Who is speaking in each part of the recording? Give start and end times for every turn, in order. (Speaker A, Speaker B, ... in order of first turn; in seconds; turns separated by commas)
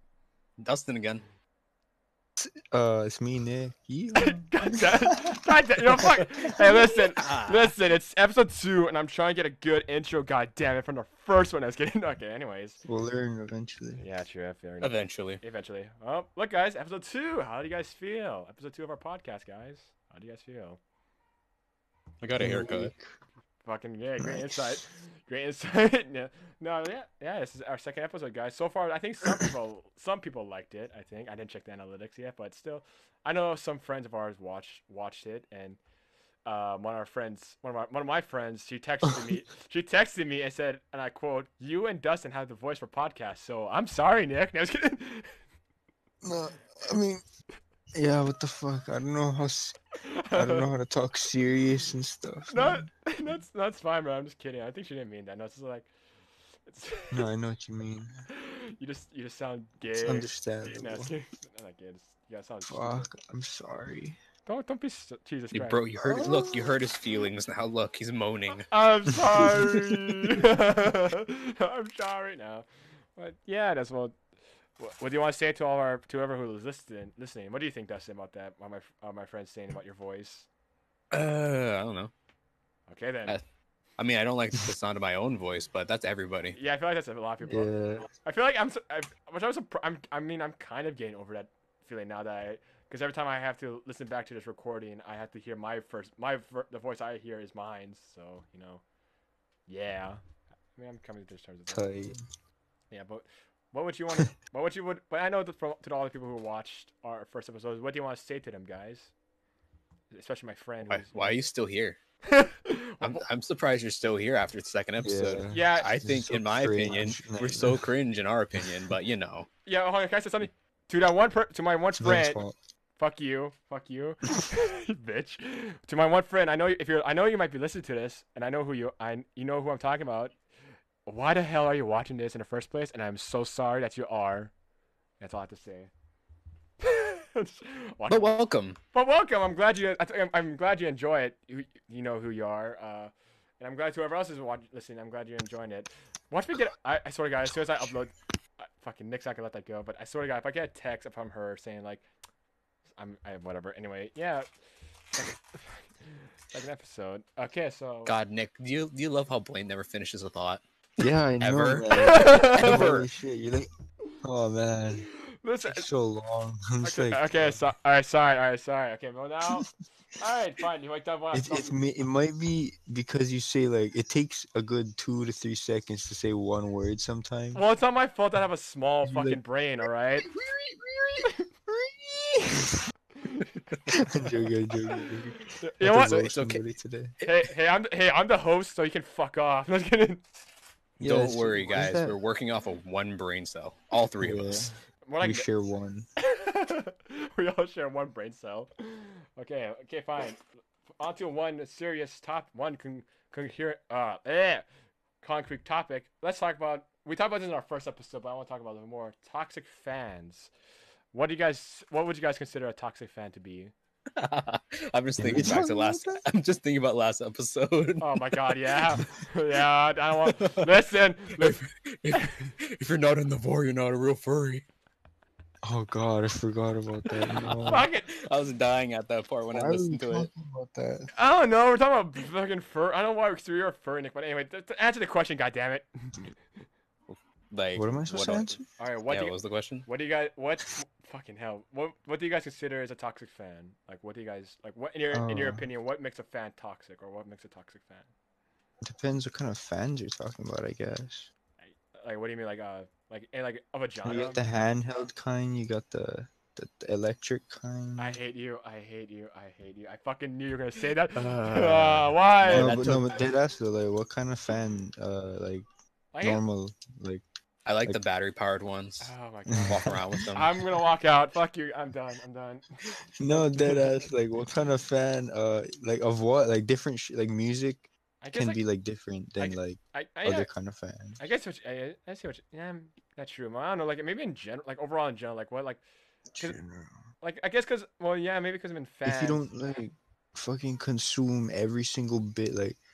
Speaker A: 0.6-1.2, Speaker B: 2.4-6.1, Speaker C: 4.2-12.8, Speaker A: 7.2-7.7, Speaker B: 12.8-14.0, Speaker C: 14.0-20.8, Speaker A: 14.8-15.4, Speaker A: 22.2-22.9, Speaker B: 22.4-23.1, Speaker C: 23.6-35.8, Speaker B: 24.2-24.8, Speaker C: 36.5-45.4, Speaker B: 39.1-39.4, Speaker B: 46.2-47.2, Speaker B: 47.9-49.8, Speaker C: 50.0-50.7, Speaker B: 50.3-52.9, Speaker C: 52.5-55.9, Speaker C: 56.7-57.2, Speaker B: 57.1-58.1, Speaker C: 58.3-63.1, Speaker B: 60.0-61.1, Speaker B: 62.6-64.2, Speaker C: 64.5-65.8, Speaker A: 65.5-68.7, Speaker B: 66.0-66.8, Speaker C: 68.6-74.2, Speaker C: 74.8-80.5, Speaker A: 81.1-82.1, Speaker C: 82.9-83.4, Speaker A: 84.0-86.6, Speaker C: 86.5-98.8, Speaker B: 87.4-88.1, Speaker C: 99.7-100.2, Speaker C: 100.8-101.8, Speaker B: 101.7-102.2, Speaker C: 102.9-109.1, Speaker C: 110.1-111.4, Speaker A: 110.9-112.0, Speaker C: 112.2-113.2, Speaker A: 113.0-119.5, Speaker B: 115.0-117.9, Speaker C: 115.5-116.0, Speaker C: 119.7-122.4, Speaker B: 121.9-122.5, Speaker C: 123.0-130.3, Speaker C: 131.1-134.5, Speaker C: 135.2-135.9, Speaker C: 136.8-138.4, Speaker A: 138.1-138.8, Speaker C: 138.9-152.1, Speaker C: 153.0-154.5, Speaker C: 155.2-158.1, Speaker A: 158.1-160.6, Speaker B: 161.0-163.7, Speaker A: 161.4-163.1, Speaker C: 161.9-162.8, Speaker B: 164.2-165.1, Speaker C: 165.0-165.9, Speaker B: 165.6-167.7, Speaker C: 166.8-171.7, Speaker B: 171.3-177.6, Speaker C: 177.5-180.3, Speaker B: 179.0-179.4, Speaker B: 180.2-182.8, Speaker C: 183.2-183.8, Speaker B: 183.9-187.2, Speaker C: 185.6-186.2, Speaker A: 185.9-186.6, Speaker C: 187.2-190.4, Speaker B: 191.0-192.2, Speaker A: 191.0-194.7, Speaker B: 194.2-196.1, Speaker C: 195.1-195.5, Speaker C: 196.2-200.4, Speaker C: 201.0-204.6, Speaker C: 205.2-210.5, Speaker C: 211.1-213.7, Speaker A: 214.2-218.4, Speaker B: 215.2-216.2, Speaker C: 218.0-221.6, Speaker A: 220.4-220.7, Speaker A: 221.4-224.6, Speaker B: 225.6-227.9, Speaker A: 227.0-230.3, Speaker C: 227.6-228.1, Speaker B: 229.5-231.1, Speaker C: 231.1-236.2, Speaker A: 237.1-238.5, Speaker B: 237.7-238.6, Speaker C: 238.8-248.1, Speaker A: 239.1-239.9, Speaker B: 245.1-245.7, Speaker B: 248.8-251.3, Speaker C: 251.7-254.4, Speaker B: 254.0-258.2, Speaker C: 258.0-263.1, Speaker B: 261.2-265.6, Speaker A: 261.5-261.8, Speaker A: 262.4-263.2, Speaker C: 266.1-266.4, Speaker B: 266.2-267.2, Speaker A: 267.6-269.1, Speaker C: 269.0-272.6, Speaker B: 269.5-270.3, Speaker A: 269.7-270.5, Speaker B: 273.2-281.2, Speaker C: 273.3-273.9, Speaker C: 278.2-278.6, Speaker C: 279.4-280.5, Speaker C: 281.2-285.8, Speaker B: 286.3-287.0, Speaker C: 287.2-289.5, Speaker B: 289.0-292.8